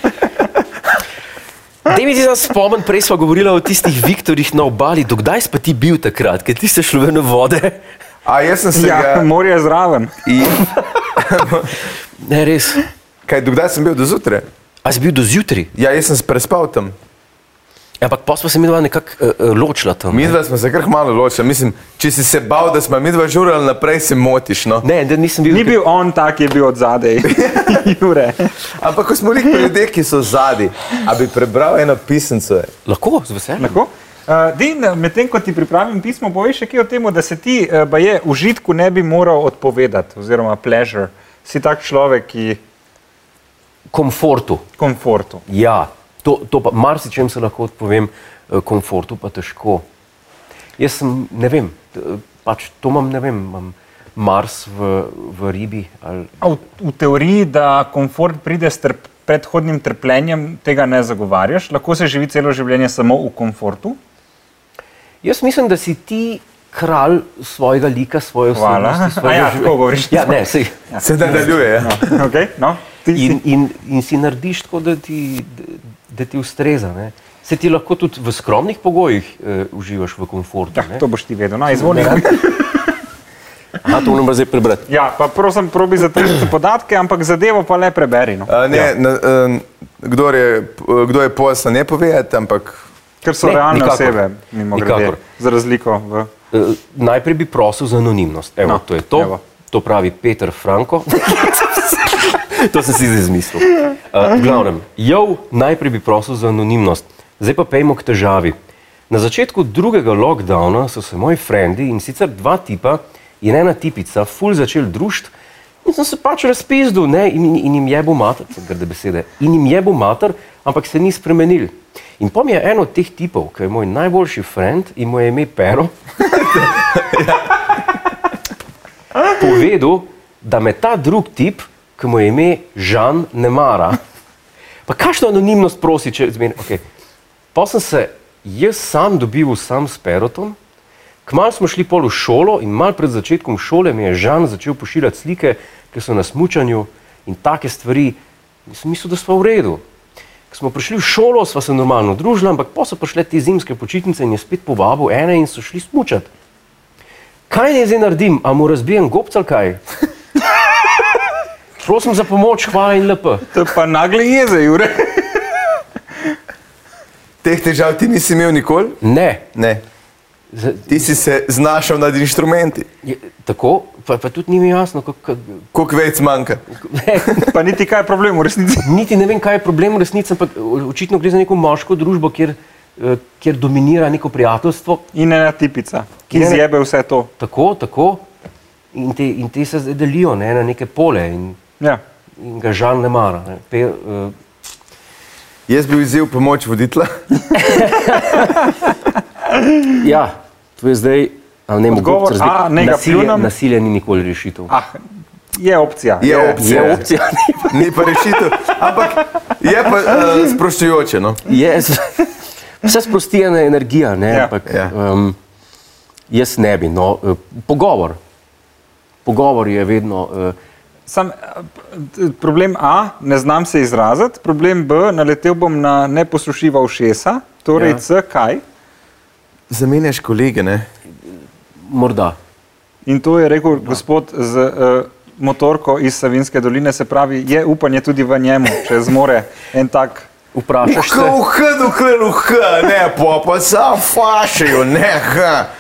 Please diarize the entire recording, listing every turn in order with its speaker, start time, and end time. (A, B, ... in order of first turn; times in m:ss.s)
0:01.8-0:07.8 A
0:08.2-0:09.3 B
0:08.8-0:10.1 C
0:10.2-0:11.8 B
0:12.2-0:12.8 A
0:13.3-0:14.5 B
0:14.8-0:15.7 A
0:15.8-0:17.0 B
0:18.0-0:20.4 A
0:20.1-0:24.8 B
0:24.8-0:25.8 A
0:25.5-0:28.6 C
0:27.2-0:27.9 B
0:28.7-0:32.7 B
0:32.9-0:33.8 A
0:33.6-0:42.6 C
0:43.9-0:44.6 A
0:44.8-0:45.4 C
0:45.5-0:49.8 A
0:50.8-0:56.4 A
0:56.4-1:04.0 C
1:05.2-1:10.8 A
1:08.6-1:13.4 C
1:11.0-1:12.3 B
1:13.1-1:21.0 A
1:20.8-1:22.9 C
1:21.8-1:22.4 A
1:23.8-1:24.9 A
1:24.9-1:28.5 C
1:28.5-1:32.8 B
1:33.2-1:36.3 C
1:33.4-1:34.2 A
1:34.7-1:35.2 A
1:36.5-1:48.6 A
1:38.7-1:39.4 C
1:49.1-1:55.3 A
1:55.8-2:05.9 A
2:06.2-2:07.9 B
2:09.3-2:14.0 A
2:14.9-2:16.8 A
2:17.5-2:20.6 A
2:21.2-2:29.8 A
2:30.5-2:36.3 A
2:37.5-2:39.8 A
2:41.8-2:43.5 A
2:43.5-2:45.7 C
2:47.4-2:49.0 B
2:49.0-2:49.5 A
2:49.5-2:49.8 B
2:50.5-2:51.1 A
2:50.9-2:52.9 B
2:53.0-2:55.7 A
2:55.7-2:56.6 B
2:56.7-2:57.5 A
2:57.4-2:58.9 C
2:58.8-3:05.0 A
3:05.1-3:07.3 C
3:06.3-3:06.6 A
3:07.4-3:08.3 A
3:08.9-3:11.6 A
3:12.4-3:14.4 A
3:15.7-3:17.2 B
3:17.5-3:18.8 A
3:19.9-3:24.7 A
3:21.9-3:23.5 C
3:24.7-3:27.2 C
3:26.2-3:27.1 B
3:26.5-3:27.8 A
3:27.6-3:31.4 B
3:31.5-3:32.3 A
3:32.8-3:35.4 A
3:34.7-3:34.9 B
3:36.3-3:38.2 A
3:39.2-3:40.6 A
3:41.1-3:48.6 C
3:47.8-3:48.0 A
3:49.7-3:50.9 B
3:51.3-3:52.4 A
3:53.1-4:00.3 C
4:00.5-4:01.4 A
4:00.8-4:05.7 B